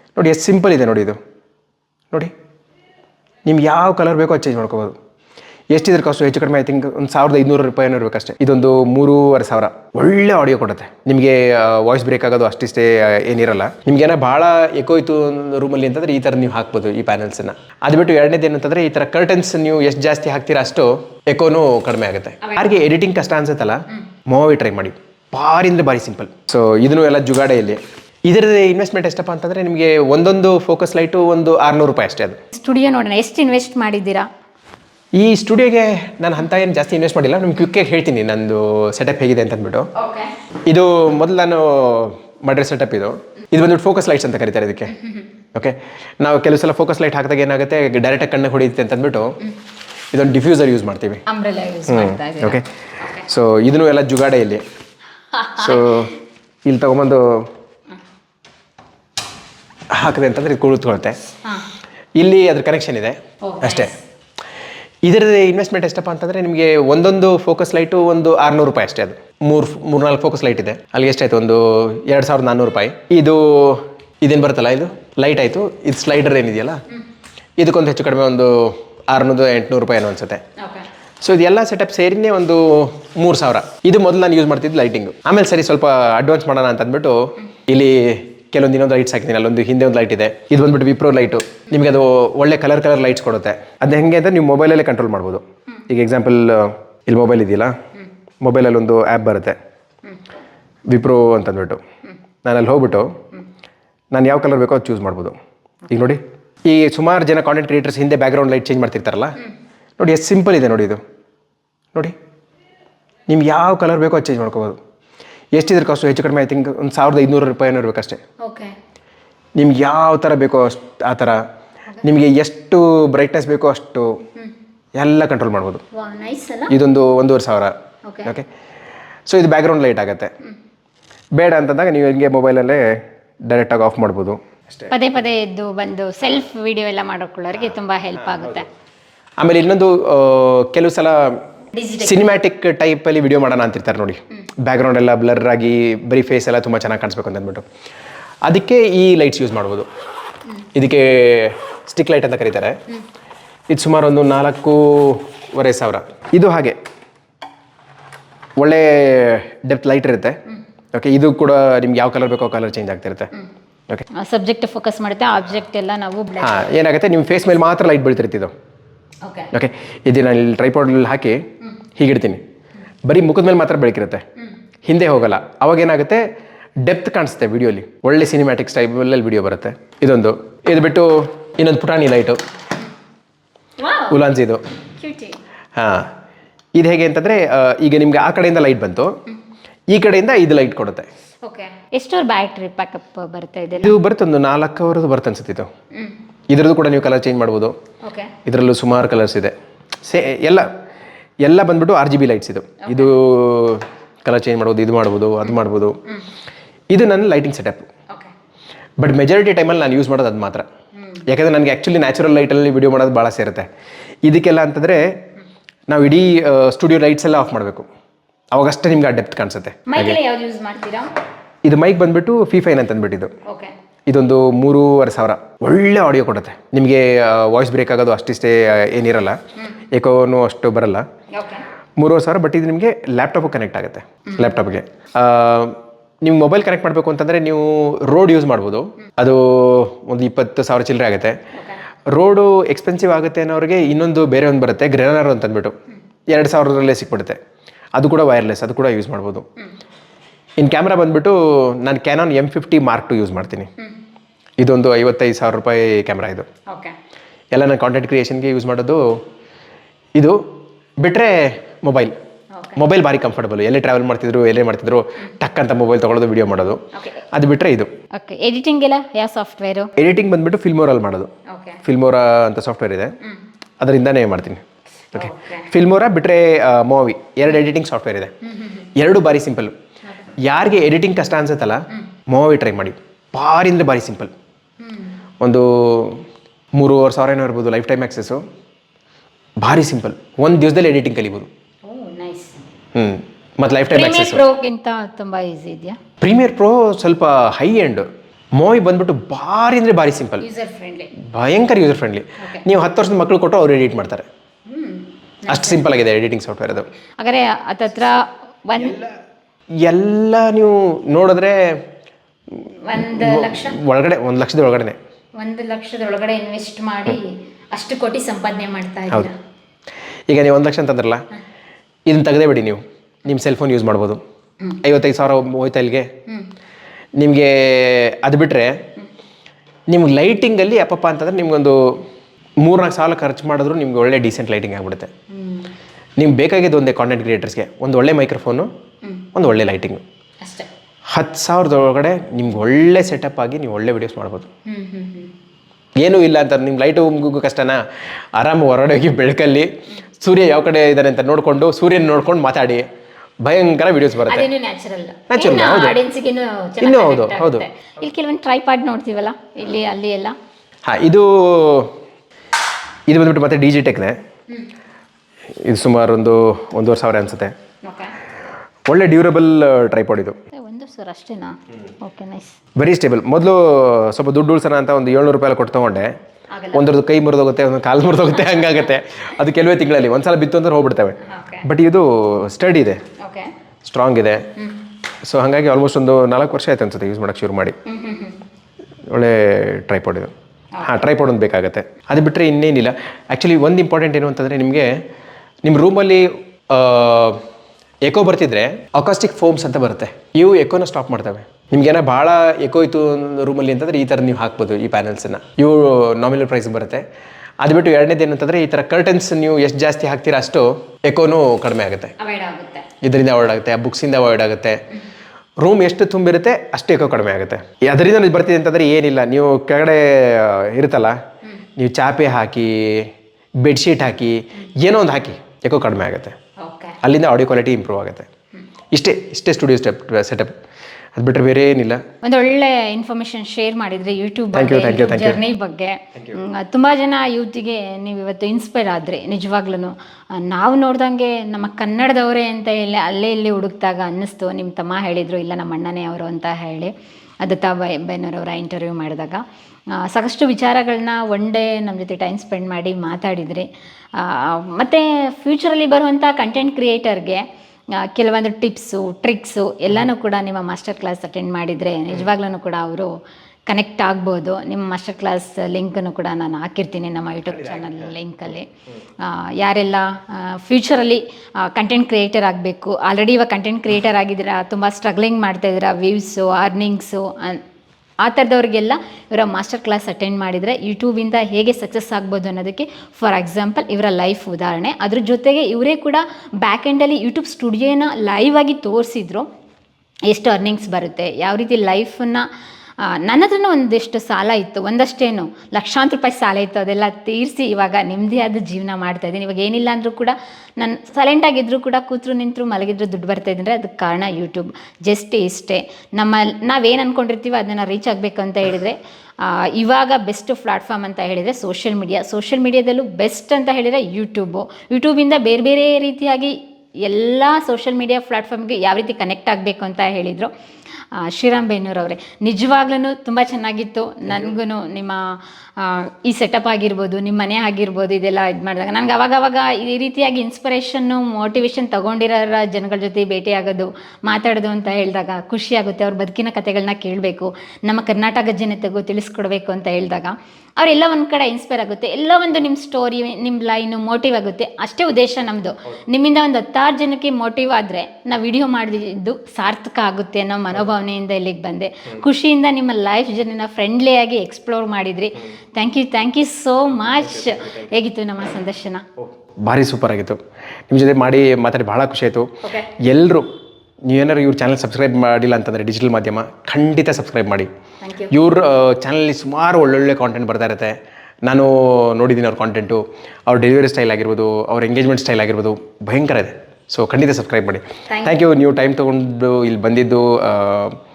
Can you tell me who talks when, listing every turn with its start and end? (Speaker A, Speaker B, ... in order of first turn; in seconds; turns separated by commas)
Speaker A: 0.2-1.2, Speaker A: 3.5-5.0, Speaker A: 5.7-32.4, Speaker B: 22.4-22.7, Speaker B: 32.5-34.3, Speaker A: 35.2-39.9, Speaker B: 40.0-40.3, Speaker A: 40.7-45.0, Speaker B: 45.0-45.3, Speaker A: 45.5-49.4, Speaker A: 50.1-51.2, Speaker B: 51.3-53.3, Speaker A: 51.9-54.6, Speaker B: 55.3-56.1, Speaker A: 55.6-56.1, Speaker A: 56.7-57.5, Speaker A: 59.9-61.2, Speaker A: 62.2-64.0, Speaker B: 63.4-64.0, Speaker A: 65.0-76.8, Speaker A: 77.6-80.4, Speaker B: 80.6-80.9, Speaker A: 81.2-97.8, Speaker A: 98.4-99.6, Speaker A: 100.9-101.8, Speaker A: 102.4-103.2, Speaker A: 104.1-105.4, Speaker A: 105.9-109.4, Speaker A: 110.0-111.0, Speaker A: 113.3-114.8, Speaker A: 115.5-118.2, Speaker B: 118.4-118.7, Speaker A: 119.6-121.4, Speaker A: 122.0-124.2, Speaker A: 125.0-125.8, Speaker B: 125.9-126.7, Speaker A: 126.7-127.8, Speaker B: 128.1-128.3, Speaker A: 129.3-130.3, Speaker A: 131.4-134.9, Speaker B: 134.9-138.7, Speaker A: 139.4-141.4, Speaker B: 141.7-142.2, Speaker A: 142.0-147.6, Speaker A: 148.5-149.9, Speaker A: 150.7-152.8, Speaker A: 153.7-156.8, Speaker A: 158.6-160.4, Speaker A: 160.9-163.3, Speaker B: 164.1-166.6, Speaker A: 166.4-168.5, Speaker B: 169.2-169.5, Speaker A: 169.5-172.4, Speaker A: 173.1-174.2, Speaker A: 174.8-176.3, Speaker A: 176.8-182.4, Speaker B: 183.8-184.2, Speaker A: 184.1-184.6, Speaker B: 185.0-185.4, Speaker A: 185.8-186.1, Speaker A: 186.8-189.1, Speaker A: 189.9-191.1, Speaker B: 191.4-194.0, Speaker A: 193.8-195.7, Speaker B: 195.9-196.2, Speaker A: 196.5-197.8, Speaker B: 198.0-198.3, Speaker A: 198.4-200.7, Speaker A: 201.4-206.0, Speaker B: 202.8-203.1, Speaker A: 206.9-207.9, Speaker A: 209.0-210.7, Speaker B: 211.0-211.2, Speaker A: 211.3-213.7, Speaker A: 214.3-215.2, Speaker A: 215.9-217.9, Speaker A: 218.5-220.2, Speaker B: 219.9-221.1, Speaker A: 221.7-223.3, Speaker B: 223.5-223.7, Speaker A: 224.1-229.4, Speaker A: 229.9-231.1, Speaker B: 231.3-231.7, Speaker A: 232.0-241.4, Speaker B: 234.3-234.6, Speaker B: 241.5-241.8, Speaker A: 242.1-245.7, Speaker A: 246.3-247.4, Speaker A: 248.0-249.5, Speaker A: 250.6-253.7, Speaker A: 254.6-256.5, Speaker B: 256.7-257.0, Speaker A: 257.5-259.2, Speaker A: 260.2-262.2, Speaker B: 262.6-262.8, Speaker A: 262.8-267.9, Speaker B: 266.9-267.3, Speaker B: 268.1-269.9, Speaker A: 270.0-271.3, Speaker B: 271.5-271.8, Speaker A: 271.8-273.2, Speaker A: 273.8-274.6, Speaker B: 275.1-275.7, Speaker A: 275.1-278.3, Speaker B: 278.4-278.9, Speaker A: 278.9-279.8, Speaker A: 280.4-284.3, Speaker B: 284.8-285.2, Speaker A: 285.4-286.2, Speaker A: 286.8-288.4, Speaker A: 289.6-291.5, Speaker B: 291.9-292.6, Speaker A: 292.9-294.4, Speaker B: 293.9-296.0, Speaker A: 296.2-300.5, Speaker B: 300.4-301.1, Speaker A: 301.2-304.3, Speaker B: 302.4-302.6, Speaker B: 304.7-305.8, Speaker A: 305.5-306.9, Speaker B: 307.2-309.0, Speaker A: 308.8-309.1, Speaker A: 309.8-311.9, Speaker A: 312.6-315.0, Speaker B: 312.8-313.8, Speaker B: 315.4-319.4, Speaker A: 320.3-321.2, Speaker A: 322.1-324.2, Speaker A: 324.8-326.1, Speaker A: 327.2-328.8, Speaker A: 329.9-332.0, Speaker A: 332.6-335.1, Speaker B: 335.3-335.7, Speaker A: 336.2-338.7, Speaker B: 339.0-339.3, Speaker A: 339.4-340.0, Speaker B: 340.4-340.7, Speaker A: 341.1-344.5, Speaker B: 344.7-345.3, Speaker A: 346.0-347.8, Speaker A: 348.4-352.9, Speaker A: 353.4-354.5, Speaker B: 354.2-360.4, Speaker A: 355.3-356.0, Speaker A: 356.8-357.6, Speaker A: 360.9-361.9, Speaker A: 363.1-364.2, Speaker A: 365.6-367.5, Speaker B: 367.8-368.1, Speaker A: 368.9-370.4, Speaker B: 370.5-372.6, Speaker A: 372.8-376.1, Speaker B: 376.5-377.0, Speaker A: 376.7-383.1, Speaker B: 381.2-381.7, Speaker B: 383.2-383.5, Speaker A: 383.9-384.5, Speaker B: 384.6-384.8, Speaker A: 385.2-387.8, Speaker B: 387.9-388.4, Speaker A: 389.1-390.3, Speaker B: 390.7-391.0, Speaker A: 390.8-395.0, Speaker A: 395.6-397.4, Speaker A: 398.1-407.0, Speaker A: 407.6-412.1, Speaker B: 412.2-412.9, Speaker A: 413.0-414.8, Speaker A: 415.6-421.2, Speaker A: 421.8-423.1, Speaker A: 423.6-426.4, Speaker B: 426.6-427.0, Speaker A: 427.0-428.3, Speaker A: 428.9-430.5, Speaker A: 431.2-432.0, Speaker B: 432.2-463.1, Speaker A: 434.5-435.4, Speaker A: 436.1-436.4, Speaker B: 463.7-468.7, Speaker B: 469.2-477.6, Speaker B: 478.2-489.5, Speaker B: 490.3-492.5, Speaker B: 493.0-520.5, Speaker B: 521.1-559.0, Speaker A: 559.6-563.5, Speaker B: 562.6-562.9, Speaker A: 564.1-567.7, Speaker B: 568.0-568.3, Speaker A: 568.3-581.0, Speaker B: 578.1-578.4